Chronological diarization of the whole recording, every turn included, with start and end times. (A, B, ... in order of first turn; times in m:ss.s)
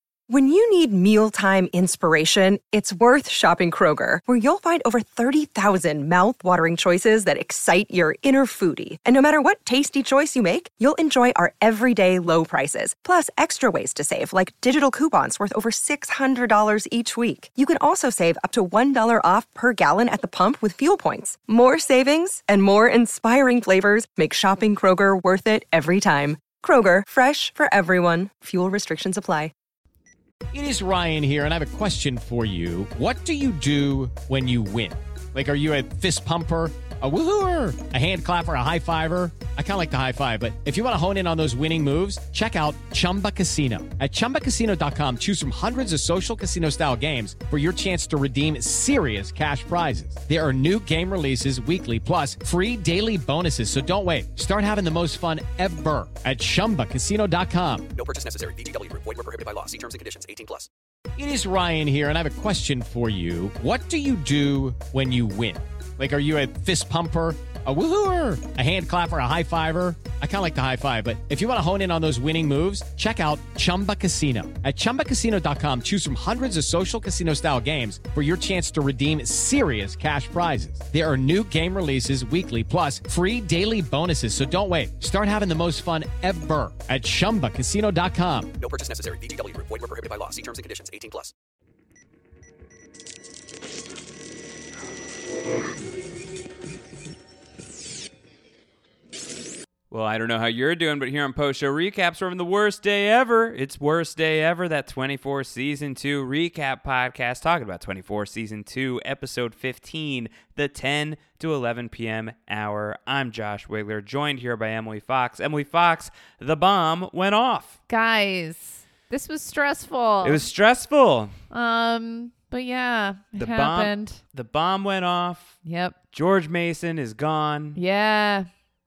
0:00.3-0:29.5 A
0:30.5-0:57.9 B
0:57.9-1:00.7 C
1:01.2-1:28.5 B
1:28.6-1:31.3 C
1:39.9-1:57.8 D
1:57.9-2:00.4 E
2:00.2-2:01.3 D
2:01.5-2:04.2 E
2:03.4-2:05.6 D
2:05.6-2:06.0 E
2:06.1-2:07.8 D
2:07.7-2:08.5 E